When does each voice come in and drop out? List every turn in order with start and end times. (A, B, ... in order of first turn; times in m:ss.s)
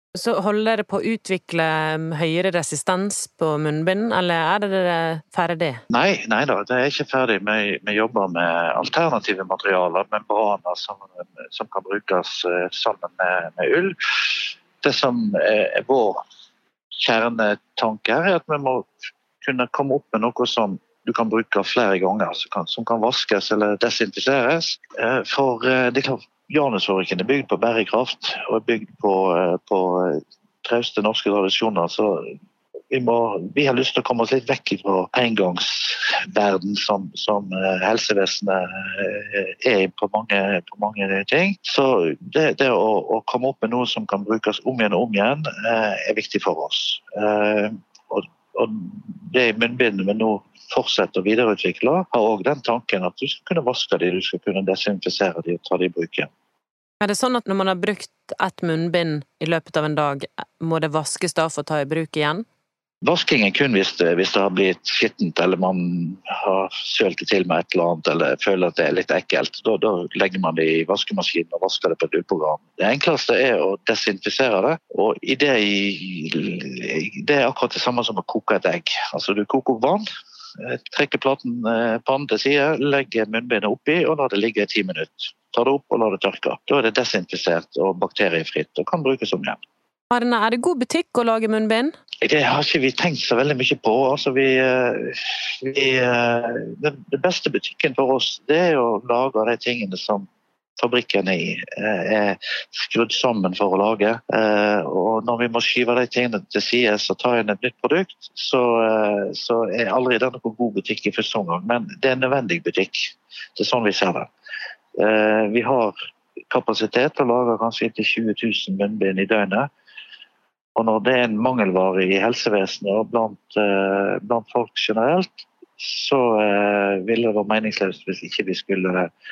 0:00.1-0:05.8 A
0:05.9-0:16.2 B
0:17.0-0:18.9 B
0:19.4-0:32.3 B
0:32.9-0:56.3 B
0:57.0-1:02.4 A
1:03.0-1:20.0 B
1:20.6-1:29.6 B
1:30.1-1:31.9 A
1:32.2-1:40.3 B
1:40.8-1:54.3 B
1:55.0-1:55.9 B
1:56.5-1:59.7 B
2:00.8-2:09.1 B